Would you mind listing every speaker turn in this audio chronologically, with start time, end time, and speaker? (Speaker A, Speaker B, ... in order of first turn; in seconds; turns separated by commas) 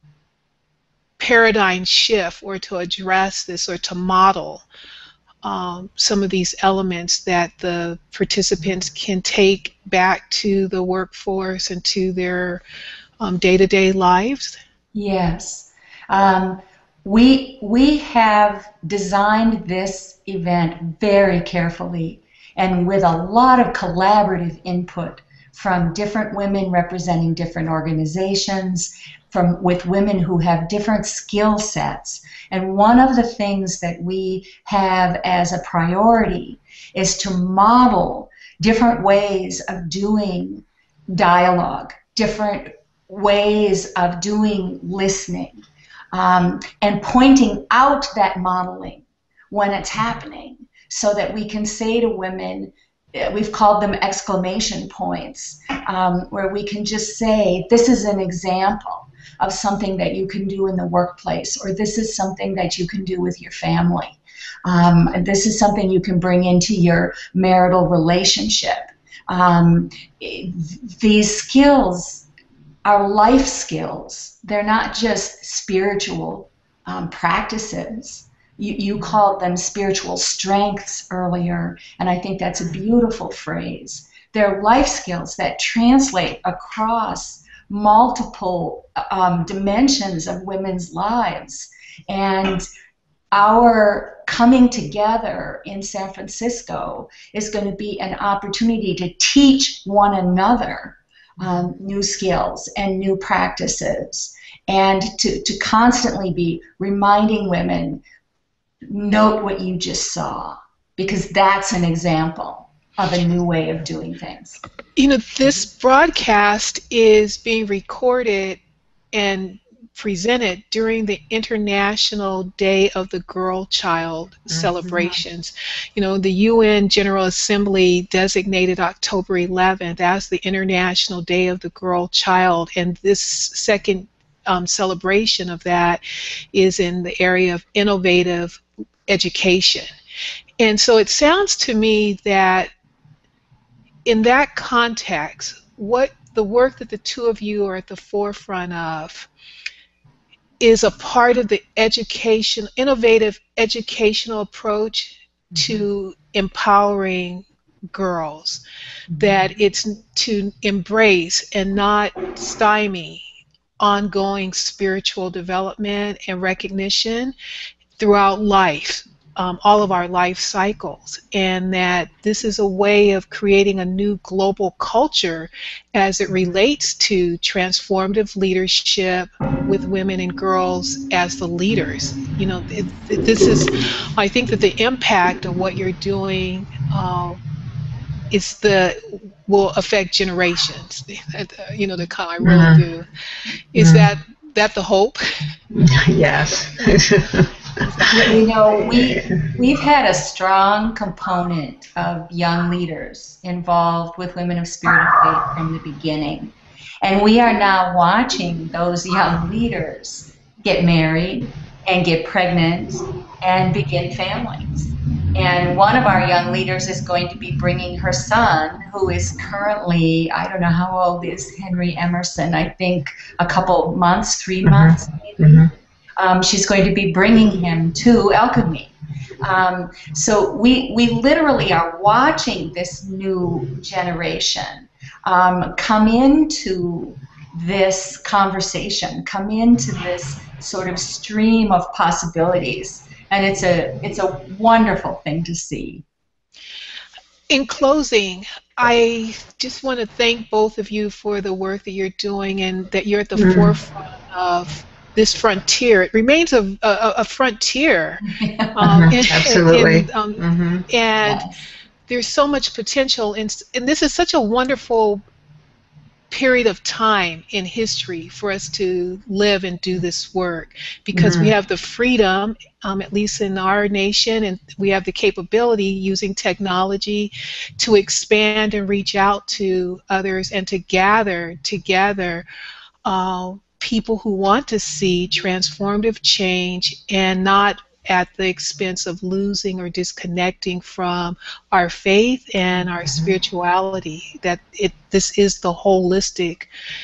Speaker A: 1.2-4.7, Speaker A: 5.4-12.6, Speaker A: 13.2-14.6, Speaker B: 14.9-72.2, Speaker B: 72.8-92.6, Speaker B: 93.3-108.0, Speaker B: 108.9-114.6, Speaker A: 115.0-118.6, Speaker A: 119.1-136.0, Speaker A: 136.5-139.9, Speaker A: 140.6-142.7, Speaker A: 144.1-149.3, Speaker A: 150.6-158.6, Speaker C: 155.5-155.8, Speaker C: 159.1-159.4, Speaker A: 159.1-163.2, Speaker A: 163.8-167.3, Speaker A: 168.0-187.4, Speaker A: 188.3-193.1, Speaker C: 192.4-192.8, Speaker A: 193.7-195.5, Speaker C: 193.8-194.1, Speaker C: 195.7-199.5, Speaker A: 197.9-198.2, Speaker B: 198.1-246.0, Speaker C: 224.6-225.7, Speaker A: 247.5-258.2, Speaker C: 253.3-253.8, Speaker B: 258.2-259.1, Speaker A: 258.8-261.5, Speaker C: 258.8-260.9, Speaker B: 261.2-261.6, Speaker A: 262.1-265.2, Speaker A: 266.3-282.4, Speaker C: 271.1-271.5, Speaker A: 283.1-296.7, Speaker C: 292.8-293.4